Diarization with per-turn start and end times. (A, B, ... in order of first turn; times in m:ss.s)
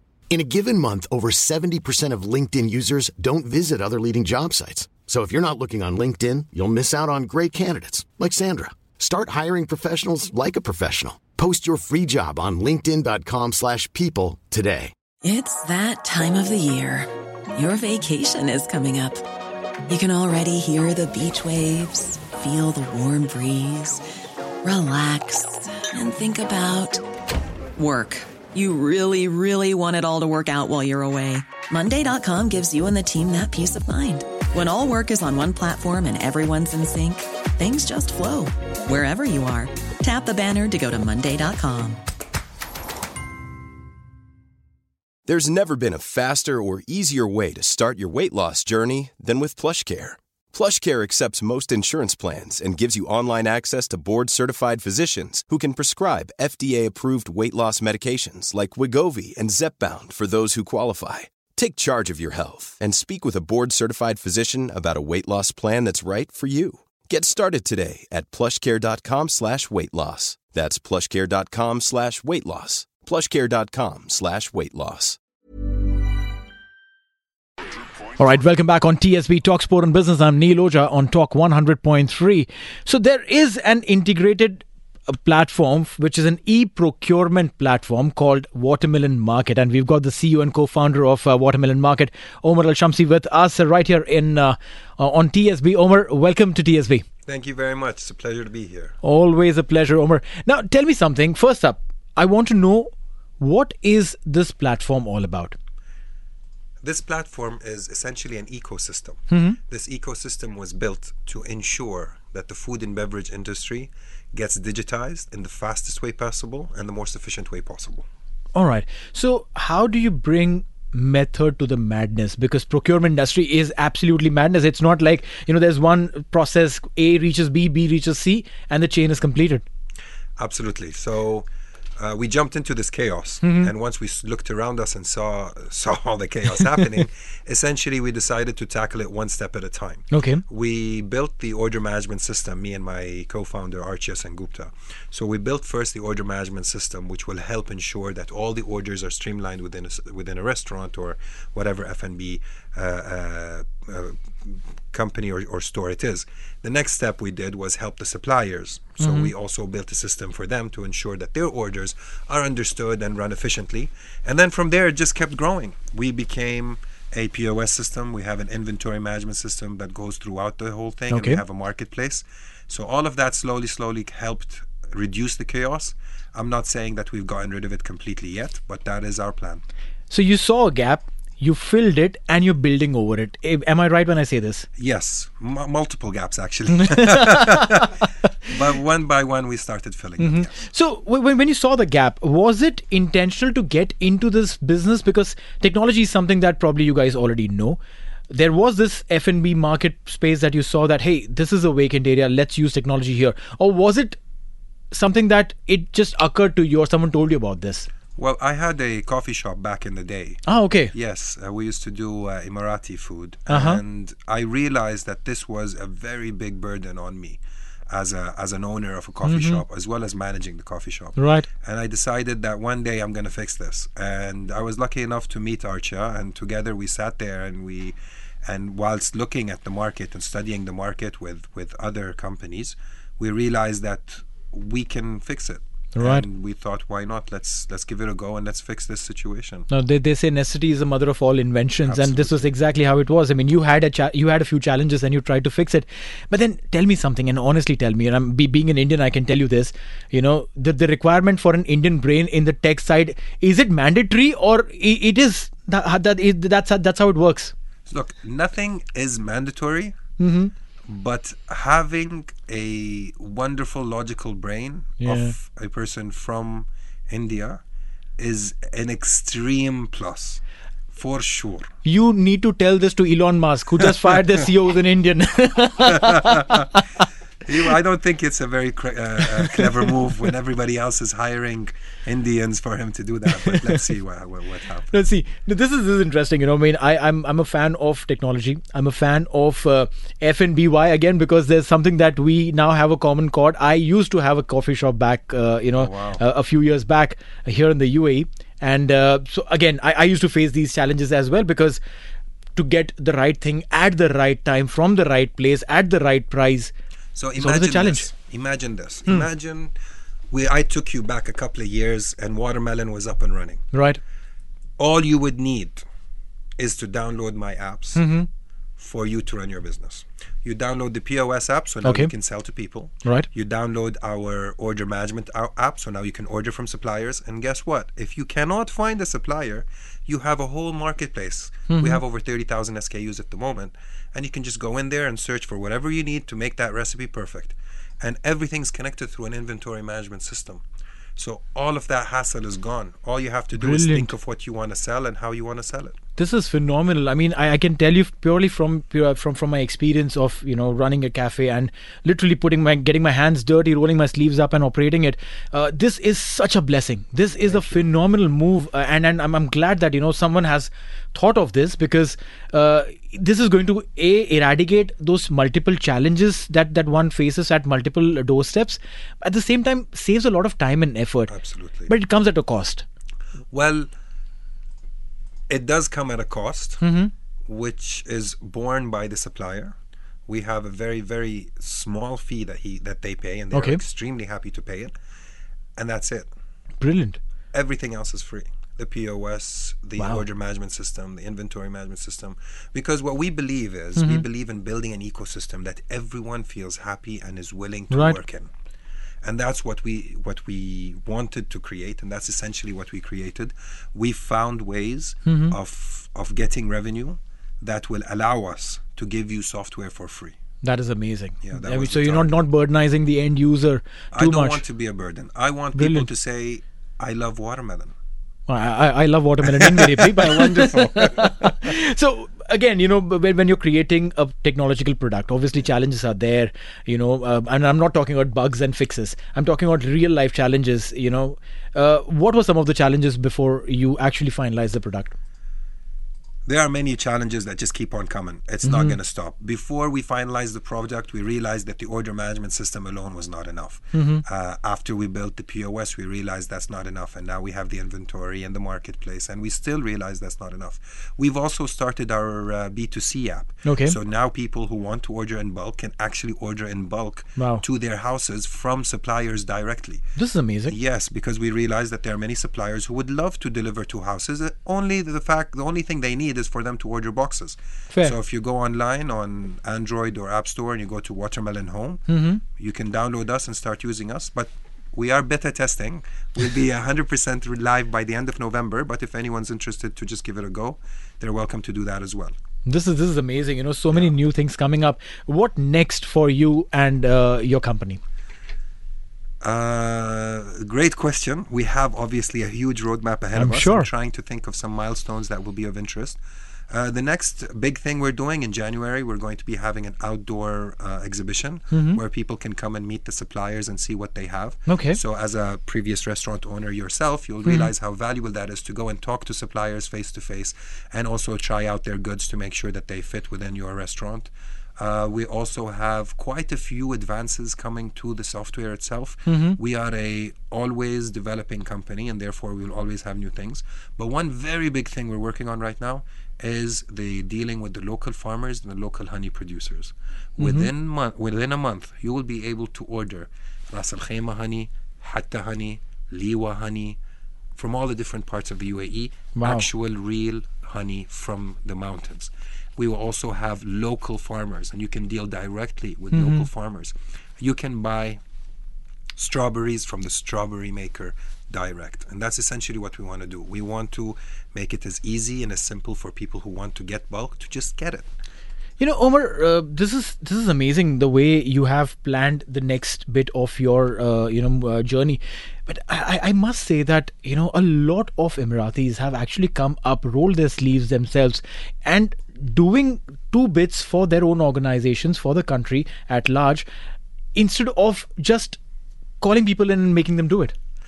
0:00.3-0:14.9 A
0:15.2-0:19.2 B
0:19.9-0:24.0 B
0:24.6-0:27.0 B
0:27.8-0:42.0 B
0:45.3-1:15.2 C
1:18.2-1:37.0 D
1:37.2-1:38.9 E
1:39.0-1:45.5 D
1:46.8-1:58.0 E
1:49.3-1:49.6 D
1:58.5-2:09.6 D
2:10.4-2:11.5 E
2:12.0-2:59.6 E
2:13.4-2:13.7 D
2:20.1-2:20.4 D
2:39.0-2:39.3 D
2:51.1-2:51.4 D
3:00.1-3:04.7 D
3:04.8-3:10.6 E
3:07.0-3:07.6 D
3:10.2-3:17.8 D
3:18.3-3:24.2 D
3:24.9-3:27.9 D
3:28.2-3:59.7 E
3:30.4-3:30.9 D
3:33.5-3:33.8 D
3:39.2-3:39.6 D
3:41.2-3:41.4 D
3:55.9-3:56.2 D
3:59.7-4:17.5 D
4:01.8-4:02.5 E
4:17.9-4:19.9 E
4:20.2-4:20.5 D
4:20.9-4:27.6 E
4:25.0-4:25.3 D
4:28.2-4:30.4 E
4:30.9-4:31.7 E
4:31.8-4:36.8 D
4:36.3-4:36.6 E
4:37.4-4:44.9 E
4:44.9-5:01.8 D
4:55.8-4:56.2 E
5:02.6-5:06.7 D
5:07.2-5:09.7 E
5:07.4-5:08.1 D
5:10.3-5:13.6 E
5:13.7-5:14.0 D
5:14.8-5:15.8 E
5:16.6-5:18.0 E
5:17.9-5:18.3 D
5:18.8-5:40.6 E
5:21.8-5:22.1 D
5:31.7-5:32.0 D
5:41.2-5:45.9 E
5:43.6-5:44.1 D
5:46.2-6:11.3 D
5:57.4-5:57.8 E
6:11.3-6:11.9 E
6:11.9-6:12.8 D
6:13.5-6:13.9 E
6:15.5-6:16.8 E
6:16.8-6:17.1 D
6:17.4-6:19.7 E
6:20.3-6:24.9 E
6:23.5-6:23.8 D
6:25.8-6:26.3 E
6:26.8-6:27.2 D
6:27.5-6:38.5 E
6:30.0-6:30.2 D
6:34.0-6:34.2 D
6:37.9-6:38.2 D
6:39.2-6:50.3 E
6:45.2-6:45.6 D
6:50.6-6:54.6 D
6:51.4-6:52.3 E
6:54.1-6:57.9 E
6:55.7-6:56.1 D
6:58.5-7:15.1 D
6:59.7-7:01.3 E
7:16.4-7:40.0 E
7:18.6-7:19.0 D
7:23.9-7:24.2 D
7:33.6-7:34.0 D
7:37.4-7:37.6 D
7:40.2-7:40.7 D
7:40.7-8:02.3 E
7:52.1-7:52.4 D
8:02.6-8:08.0 D
8:09.4-8:16.2 E
8:13.3-8:13.9 D
8:16.7-8:57.0 E
8:21.7-8:22.0 D
8:24.7-8:25.0 D
8:27.4-8:27.7 D
8:39.3-8:39.6 D
8:50.4-8:50.7 D
8:57.6-9:08.2 E
8:59.3-8:59.6 D
9:06.1-9:06.5 D
9:09.2-9:18.1 E
9:18.8-9:36.6 D
9:37.3-9:38.6 D
9:39.2-9:40.5 D